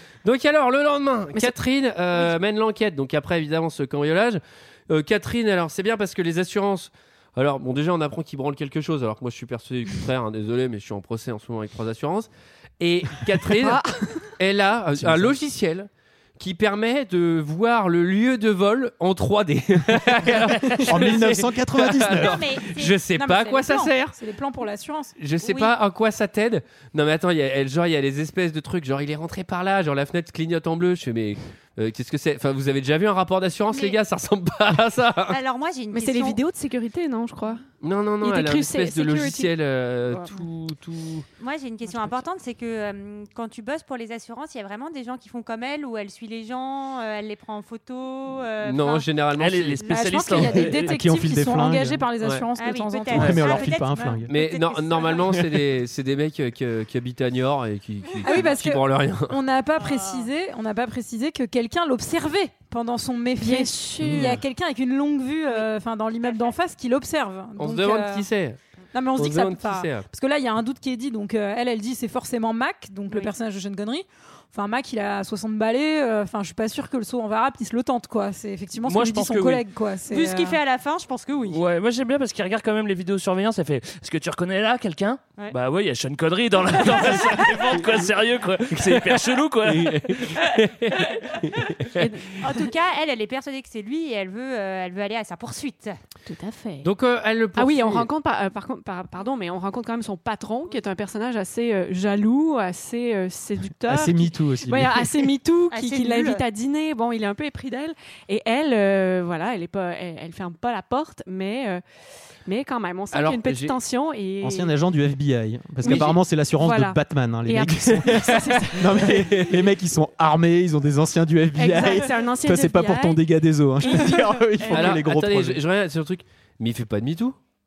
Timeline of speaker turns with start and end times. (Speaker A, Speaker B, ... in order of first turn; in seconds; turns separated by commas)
Speaker A: 0.2-24.1, Speaker B: 13.5-14.2, Speaker C: 14.9-15.3, Speaker C: 20.3-22.5, Speaker D: 22.2-23.0, Speaker E: 23.1-25.1, Speaker A: 25.2-35.4, Speaker D: 25.4-25.7, Speaker D: 33.7-34.0, Speaker D: 35.3-36.4, Speaker B: 35.9-37.6, Speaker A: 37.8-41.2, Speaker B: 38.2-39.5, Speaker B: 40.1-40.4, Speaker D: 41.4-49.1, Speaker A: 48.6-50.0, Speaker F: 49.4-50.9, Speaker E: 49.9-53.7, Speaker C: 50.4-52.0, Speaker A: 52.2-52.5, Speaker D: 52.5-55.4, Speaker C: 53.1-54.3, Speaker A: 54.3-59.4, Speaker E: 58.2-68.3, Speaker D: 59.8-60.3, Speaker B: 63.4-64.4, Speaker D: 66.2-66.5, Speaker A: 67.6-68.6, Speaker E: 68.9-80.6, Speaker A: 69.2-70.0, Speaker F: 78.8-79.7, Speaker D: 80.1-81.6, Speaker F: 81.5-90.5, Speaker D: 86.9-87.3, Speaker A: 89.7-92.0, Speaker B: 91.9-92.7, Speaker D: 92.4-96.0, Speaker B: 96.2-96.9, Speaker A: 96.8-98.1, Speaker B: 97.5-111.8, Speaker C: 103.8-105.3, Speaker D: 105.7-106.4, Speaker B: 112.5-114.7, Speaker A: 113.1-113.8, Speaker C: 114.4-125.6, Speaker B: 115.8-119.2, Speaker A: 115.8-116.2, Speaker A: 118.1-119.6, Speaker B: 121.5-123.2, Speaker B: 123.8-125.0, Speaker A: 124.7-127.4